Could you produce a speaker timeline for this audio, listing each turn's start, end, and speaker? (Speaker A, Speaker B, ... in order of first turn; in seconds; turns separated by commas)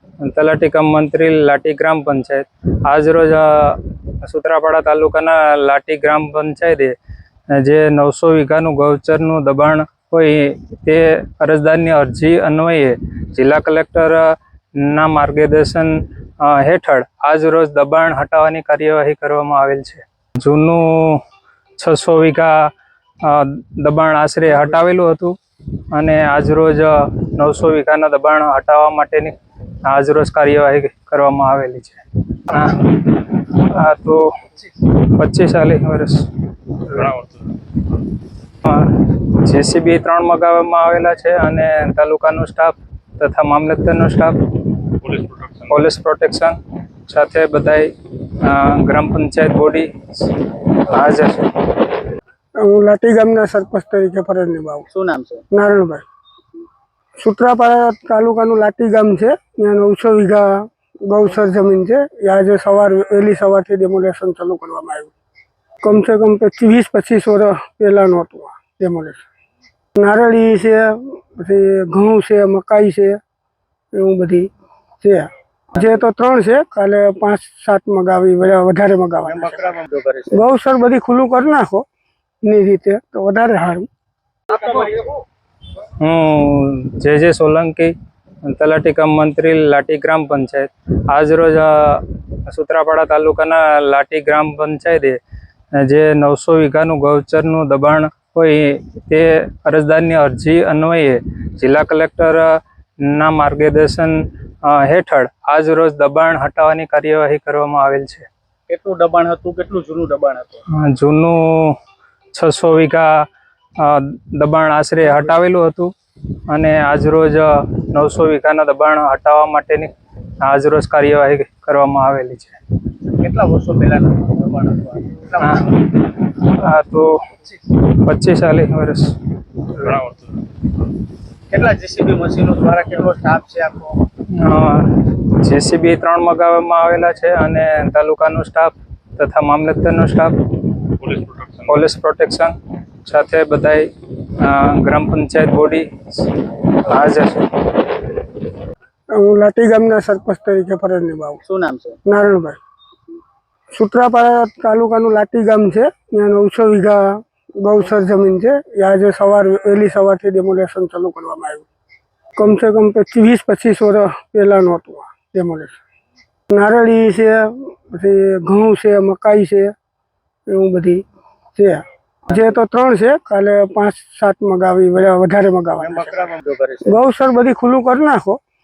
Speaker A: 0.2-6.9, Speaker A: 7.5-21.2, Speaker A: 21.8-22.7, Speaker A: 23.2-25.4, Speaker A: 25.9-37.4, Speaker A: 38.6-51.5, Speaker B: 52.6-54.9, Speaker C: 54.9-55.5, Speaker B: 55.5-56.0, Speaker B: 57.2-65.1, Speaker B: 65.8-69.2, Speaker B: 69.9-73.2, Speaker B: 73.9-74.5, Speaker B: 75.0-79.7, Speaker C: 79.2-80.4, Speaker B: 80.3-81.8, Speaker B: 82.4-83.8, Speaker C: 84.5-85.2, Speaker A: 86.0-95.2, Speaker A: 95.7-108.3, Speaker C: 108.7-110.6, Speaker A: 110.7-111.8, Speaker A: 112.3-113.2, Speaker A: 113.8-115.9, Speaker A: 116.5-122.6, Speaker C: 123.0-125.7, Speaker A: 125.4-130.1, Speaker C: 131.5-134.1, Speaker A: 134.3-146.3, Speaker A: 146.8-147.5, Speaker B: 149.1-151.4, Speaker C: 151.4-152.0, Speaker B: 152.0-152.6, Speaker B: 153.7-161.6, Speaker B: 162.3-165.8, Speaker B: 166.5-169.7, Speaker B: 170.5-171.0, Speaker B: 171.6-176.3, Speaker C: 175.8-176.9, Speaker B: 176.8-178.4